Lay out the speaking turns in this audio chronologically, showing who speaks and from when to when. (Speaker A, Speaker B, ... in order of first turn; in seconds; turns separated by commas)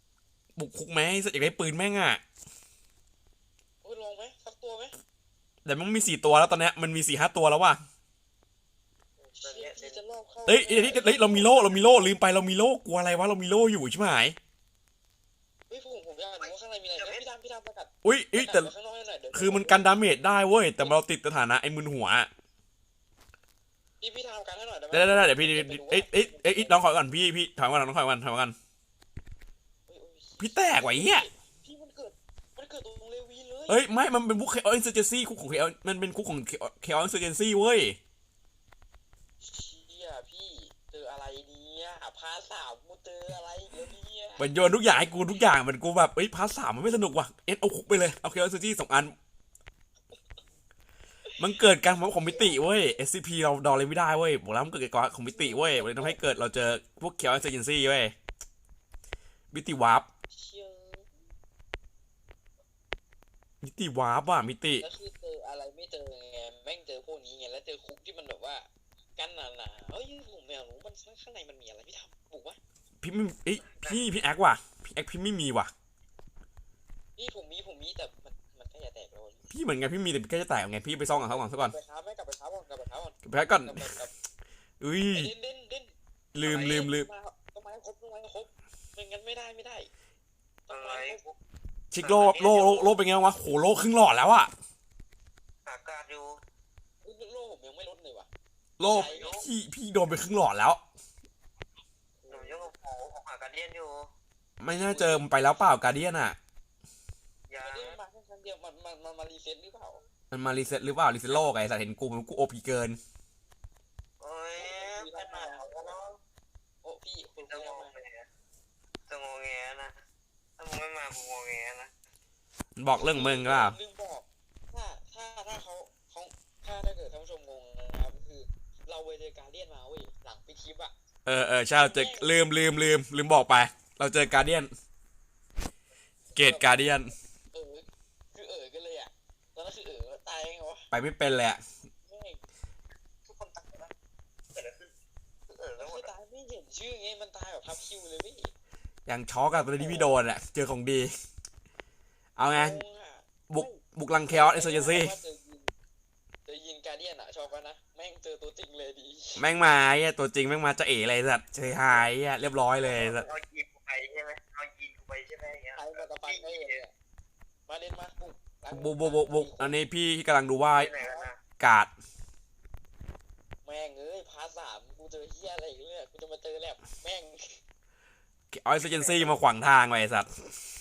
Speaker A: 0.6-2.2, Speaker B: 3.8-5.0, Speaker A: 5.7-7.8, Speaker C: 9.3-10.0, Speaker B: 9.4-12.2, Speaker A: 10.5-14.4, Speaker B: 15.7-20.1, Speaker C: 17.0-17.2, Speaker A: 18.0-18.7, Speaker A: 19.3-22.3, Speaker B: 24.0-26.8, Speaker A: 24.9-28.6, Speaker B: 29.9-33.8, Speaker A: 30.4-31.3, Speaker A: 33.7-38.0, Speaker B: 39.4-45.5, Speaker A: 44.4-49.1, Speaker B: 51.2-53.0, Speaker A: 51.4-58.1, Speaker B: 55.3-56.2, Speaker A: 59.5-60.1, Speaker B: 60.3-61.1, Speaker A: 63.6-64.8, Speaker B: 64.8-72.6, Speaker A: 73.0-75.7, Speaker B: 77.2-79.5, Speaker A: 79.5-81.8, Speaker B: 81.3-84.1, Speaker A: 83.2-83.9, Speaker A: 84.8-85.3, Speaker B: 85.1-89.9, Speaker A: 86.3-87.1, Speaker C: 86.5-86.9, Speaker B: 90.7-91.2, Speaker C: 90.7-91.3, Speaker A: 91.9-94.5, Speaker C: 92.0-92.9, Speaker C: 95.7-96.4, Speaker B: 97.0-98.3, Speaker A: 98.8-100.8, Speaker B: 98.9-99.4, Speaker C: 98.9-99.4, Speaker B: 102.2-102.7, Speaker C: 102.3-104.1, Speaker A: 104.6-106.4, Speaker B: 104.9-105.2, Speaker C: 107.5-108.0, Speaker B: 107.6-110.0, Speaker A: 110.3-113.0, Speaker C: 114.2-116.2, Speaker B: 114.6-116.0, Speaker B: 116.8-117.9, Speaker C: 117.5-118.3, Speaker C: 119.1-120.0, Speaker C: 120.6-121.9, Speaker A: 122.8-123.8, Speaker B: 122.9-130.9, Speaker A: 131.3-134.7, Speaker B: 131.7-132.4, Speaker B: 136.3-136.8, Speaker A: 136.4-137.1, Speaker B: 137.5-140.9, Speaker A: 140.9-141.6, Speaker B: 142.0-142.4, Speaker C: 143.2-143.9, Speaker C: 144.5-144.9, Speaker C: 145.5-146.1, Speaker B: 145.8-148.5, Speaker A: 149.1-151.1, Speaker B: 149.7-150.1, Speaker A: 152.4-152.8, Speaker B: 152.4-155.7, Speaker A: 153.5-155.2, Speaker B: 156.5-159.4, Speaker A: 159.4-163.3, Speaker C: 162.8-166.8, Speaker B: 165.8-166.9, Speaker B: 167.7-169.8, Speaker A: 168.7-170.9, Speaker C: 170.7-171.4, Speaker B: 171.0-171.3, Speaker A: 171.6-171.9, Speaker B: 173.7-177.6, Speaker A: 178.5-180.5, Speaker B: 178.9-179.2